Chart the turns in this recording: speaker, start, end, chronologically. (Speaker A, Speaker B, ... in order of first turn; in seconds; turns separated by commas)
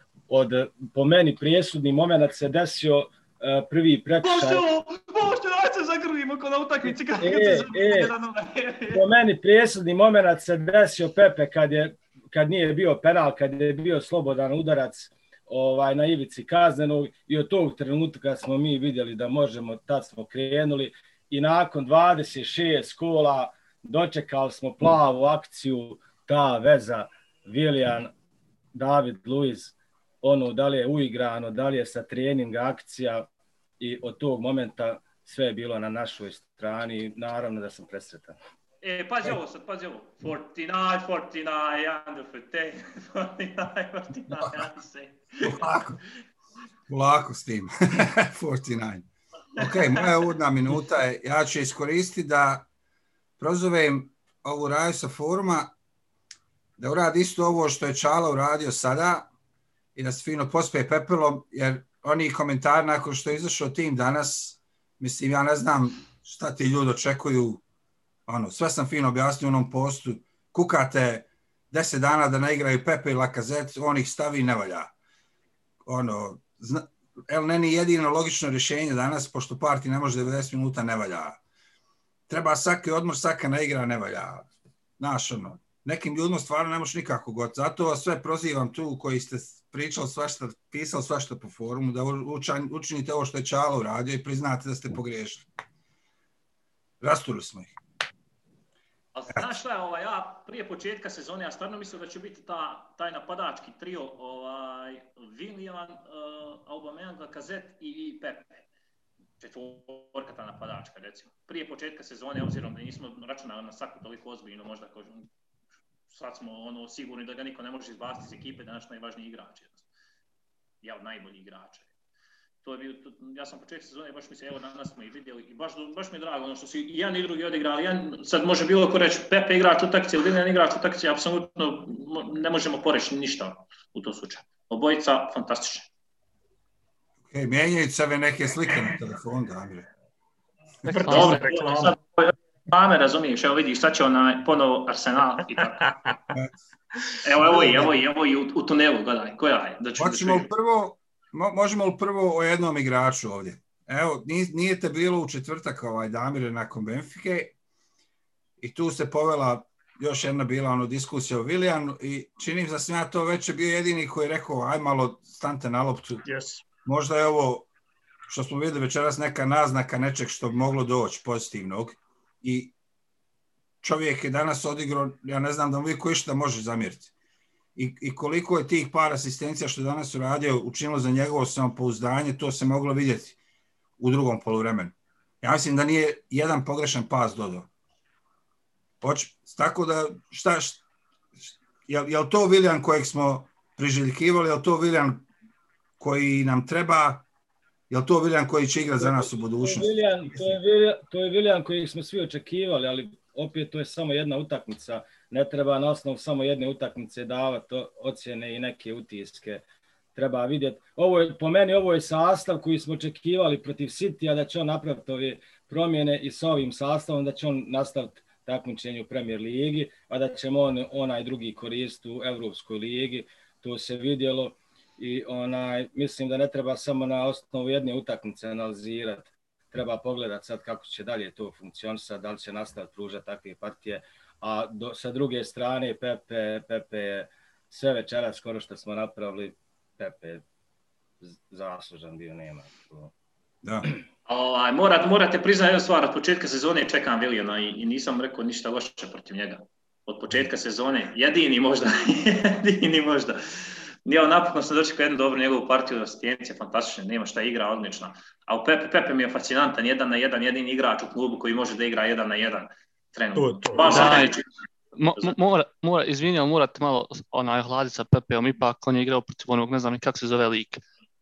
Speaker A: 0.3-4.6, Speaker B: 4.2-9.0, Speaker A: 7.2-8.1, Speaker A: 8.9-28.1, Speaker A: 28.7-33.3, Speaker A: 33.8-38.4, Speaker B: 38.8-45.7, Speaker C: 45.4-46.0, Speaker C: 46.9-49.0, Speaker C: 49.6-52.6, Speaker B: 49.6-50.0, Speaker C: 53.4-55.7, Speaker C: 56.8-59.3, Speaker C: 60.0-67.6, Speaker C: 68.3-74.9, Speaker C: 75.8-81.4, Speaker C: 82.3-95.5, Speaker C: 97.0-97.8, Speaker B: 99.1-108.6, Speaker C: 99.3-99.6, Speaker B: 109.4-115.3, Speaker B: 116.1-119.8, Speaker B: 120.8-121.9, Speaker B: 122.6-135.9, Speaker C: 137.3-139.9, Speaker D: 140.9-141.9, Speaker E: 140.9-141.4, Speaker B: 141.1-145.9, Speaker B: 147.2-150.5, Speaker C: 147.4-147.9, Speaker C: 150.0-157.5, Speaker C: 158.6-166.2, Speaker D: 166.2-166.6, Speaker C: 166.8-167.7, Speaker C: 168.3-172.7, Speaker C: 173.8-177.1, Speaker C: 177.8-183.4, Speaker C: 184.0-187.7, Speaker C: 189.0-190.8, Speaker C: 191.5-195.2, Speaker C: 196.0-197.2, Speaker C: 197.9-200.6, Speaker A: 199.0-209.6, Speaker A: 210.1-240.4, Speaker A: 241.2-243.1, Speaker B: 244.3-264.5, Speaker D: 263.3-264.2, Speaker E: 263.8-264.4, Speaker E: 264.9-270.8